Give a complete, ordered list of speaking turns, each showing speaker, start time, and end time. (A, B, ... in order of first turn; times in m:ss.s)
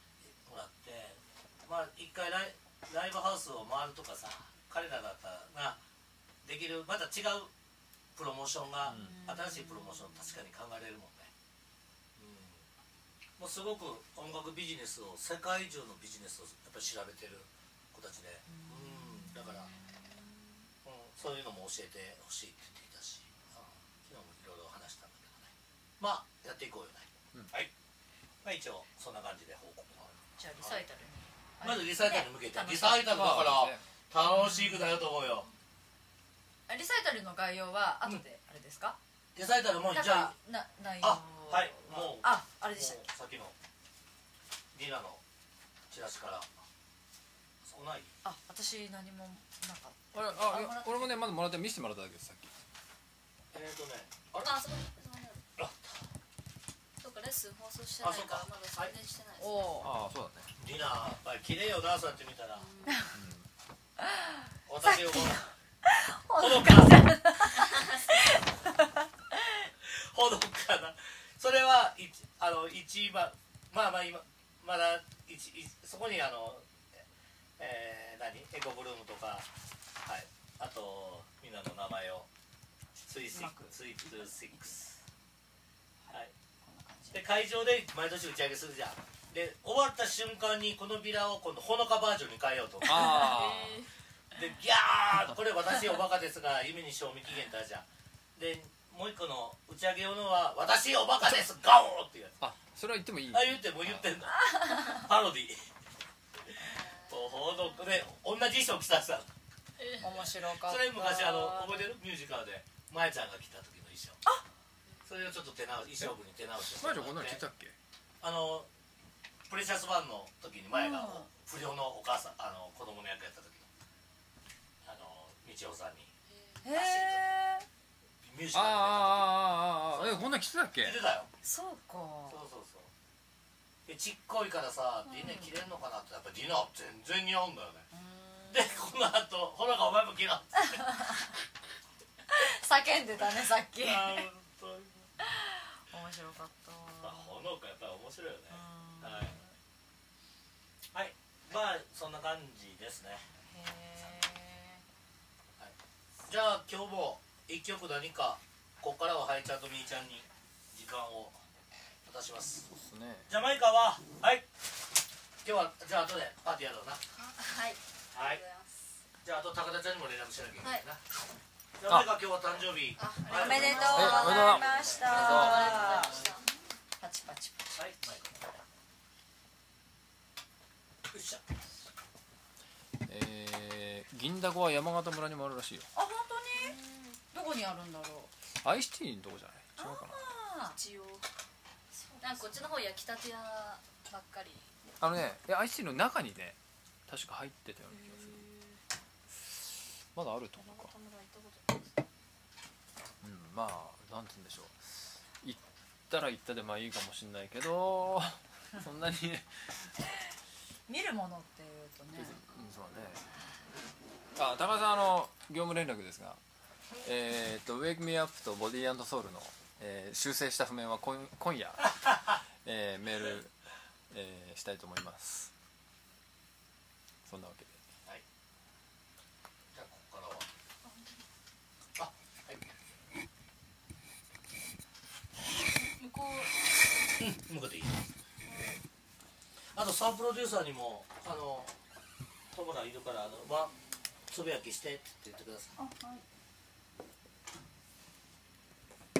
0:00.4-0:05.8 A
0:06.4-0:07.5 A
0:08.1-0:11.3 A
0:08.8-0:09.2 B
0:08.9-0:10.3 C
0:12.2-0:12.6 A
0:13.4-0:19.7 A
0:18.5-0:19.9 C
0:20.8-0:27.7 A
0:28.4-0:30.8 A
0:30.4-0:33.3 C
0:31.6-0:35.5 A
0:33.1-0:33.8 B
0:34.2-0:34.8 C
0:36.7-0:39.0 C
0:39.4-0:40.3 A
0:39.9-0:43.0 C
0:41.0-0:43.5 A
0:44.7-0:45.2 A
0:45.9-0:46.5 A
0:47.6-0:48.1 A
0:48.2-0:51.1 C
0:50.1-0:52.5 B
0:53.5-0:54.5 A
0:54.4-0:55.4 D
0:55.6-0:56.0 A
0:57.0-0:59.6 D
0:58.0-0:58.9 A
0:59.4-0:59.9 C
0:59.8-1:00.5 B
1:00.6-1:02.7 A
1:02.6-1:03.0 D
1:02.8-1:03.2 C
1:03.1-1:03.5 B
1:04.0-1:09.7 C
1:04.7-1:05.4 A
1:06.4-1:07.0 A
1:09.8-1:16.6 A
1:17.6-1:19.5 A
1:20.0-1:22.3 A
1:23.0-1:24.8 A
1:23.3-1:25.0 C
1:26.0-1:27.2 C
1:27.1-1:33.5 A
1:32.8-1:33.8 B
1:33.0-1:33.9 D
1:34.3-1:37.8 A
1:38.4-1:42.5 A
1:42.4-1:44.1 B
1:43.3-1:45.7 A
1:44.4-1:45.0 C
1:46.5-1:49.3 A
1:46.6-1:47.8 D
1:49.8-1:50.1 D
1:50.0-1:51.8 C
1:50.0-1:54.2 A
1:55.0-1:57.4 A
1:56.6-1:57.7 B
1:58.2-1:58.7 A
1:59.5-2:03.7 A
2:00.7-2:01.3 C
2:04.8-2:06.1 A
2:06.3-2:06.6 D
2:06.6-2:07.6 C
2:06.7-2:07.3 A
2:08.2-2:10.3 A
2:08.5-2:11.0 B
2:10.8-2:11.3 A
2:11.4-2:12.4 C
2:12.3-2:12.9 A
2:13.8-2:17.8 A
2:15.1-2:15.5 C
2:17.9-2:18.8 C
2:18.5-2:20.9 A
2:20.7-2:21.2 C
2:22.3-2:24.3 C
2:23.2-2:25.1 A
2:25.2-2:27.3 C
2:27.0-2:29.4 A
2:28.5-2:29.5 C
2:30.9-2:33.3 A
2:33.4-2:34.8 C
2:36.3-2:41.4 A
2:42.0-2:42.6 A
2:42.7-2:43.3 B
2:43.3-2:44.4 A
2:45.4-2:47.0 A
2:47.1-2:49.0 D
2:48.1-2:48.4 A
2:49.2-2:51.0 A
2:51.8-2:56.3 A
2:53.0-2:56.6 D
2:53.3-2:56.2 C
2:53.9-2:55.7 B
2:57.0-2:57.6 C
2:57.7-2:58.4 A
3:01.1-3:01.4 A
3:03.0-3:05.9 B
3:05.9-3:08.3 C
3:06.5-3:07.0 D
3:08.6-3:10.2 B
3:09.8-3:10.8 C
3:10.6-3:11.3 D
3:11.9-3:12.5 C
3:12.2-3:14.7 D
3:15.0-3:18.4 B
3:17.9-3:18.8 D
3:20.1-3:20.9 B
3:20.6-3:22.0 D
3:23.2-3:29.9 B
3:30.9-3:32.4 C
3:32.2-3:33.3 B
3:34.3-3:36.4 B
3:37.0-3:43.5 B
3:44.1-3:45.5 B
3:47.2-3:47.8 B
3:49.7-3:50.5 A
3:50.8-3:51.2 D
3:52.0-3:52.7 A
3:56.0-3:56.5 D
3:57.2-3:58.1 A
3:58.5-3:58.7 D
3:59.7-4:01.7 A
4:02.5-4:03.7 A
4:04.3-4:05.8 A
4:05.8-4:06.2 C